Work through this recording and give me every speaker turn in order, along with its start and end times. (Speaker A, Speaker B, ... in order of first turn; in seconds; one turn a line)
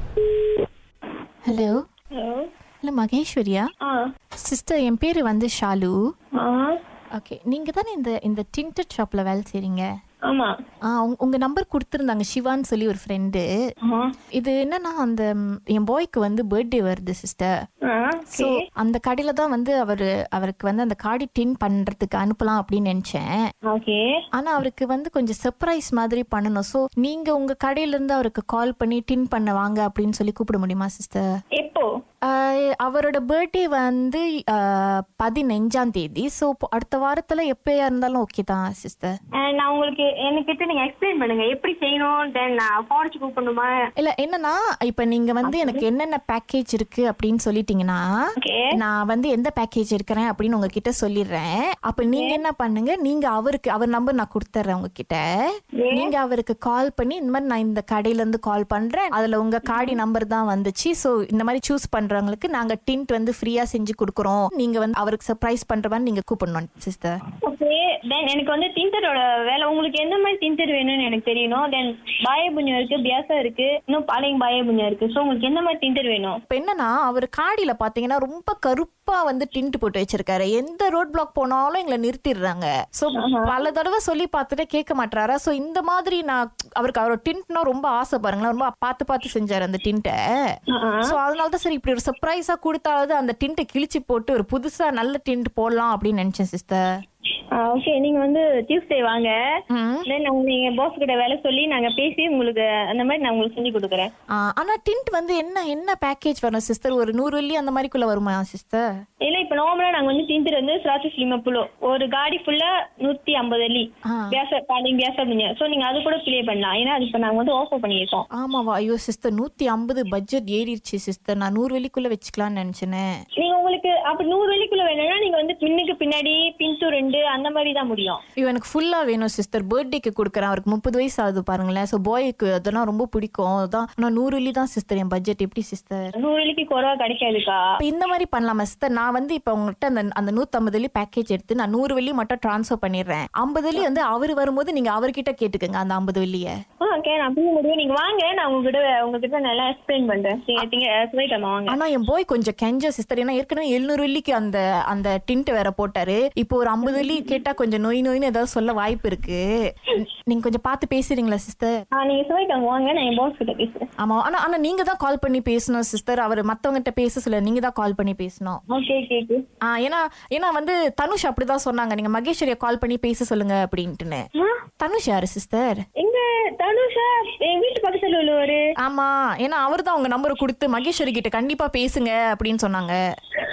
Speaker A: 1.4-1.8
Speaker B: 2.1-2.5
Speaker A: 2.8-3.7
Speaker A: 4.4-5.9
Speaker B: 6.4-6.8
Speaker A: 7.1-9.8
Speaker A: 10.9-13.5
Speaker B: 13.8-14.1
Speaker A: 14.3-17.5
Speaker B: 17.9-18.6
Speaker A: 18.3-23.3
Speaker B: 23.7-24.0
Speaker A: 24.4-31.2
Speaker B: 31.6-31.9
Speaker A: 32.3-39.1
Speaker B: 39.4-43.7
Speaker A: 44.0-48.0
Speaker B: 45.4-45.8
Speaker B: 48.4-48.7
Speaker A: 48.8-55.2
Speaker B: 52.1-52.4
Speaker B: 55.8-56.1
Speaker A: 55.9-67.2
Speaker B: 59.7-60.0
Speaker B: 67.4-76.4
Speaker A: 76.5-90.1
Speaker B: 83.2-83.5
Speaker B: 90.7-91.0
Speaker A: 91.1-96.8
Speaker B: 97.6-99.3
Speaker A: 99.7-100.0
Speaker B: 100.1-104.1
Speaker A: 104.4-108.8
Speaker B: 109.2-118.2
Speaker A: 118.4-123.0
Speaker B: 123.4-128.2
Speaker A: 128.4-136.1
Speaker B: 136.2-137.6
Speaker A: 137.8-146.5
Speaker B: 146.9-151.8
Speaker A: 151.7-161.8
Speaker B: 156.8-157.3
Speaker B: 161.9-163.8
Speaker A: 164.0-168.6
Speaker B: 168.7-169.4
Speaker A: 169.7-174.2
Speaker A: 174.8-175.8
Speaker B: 176.0-178.6
Speaker A: 178.8-183.0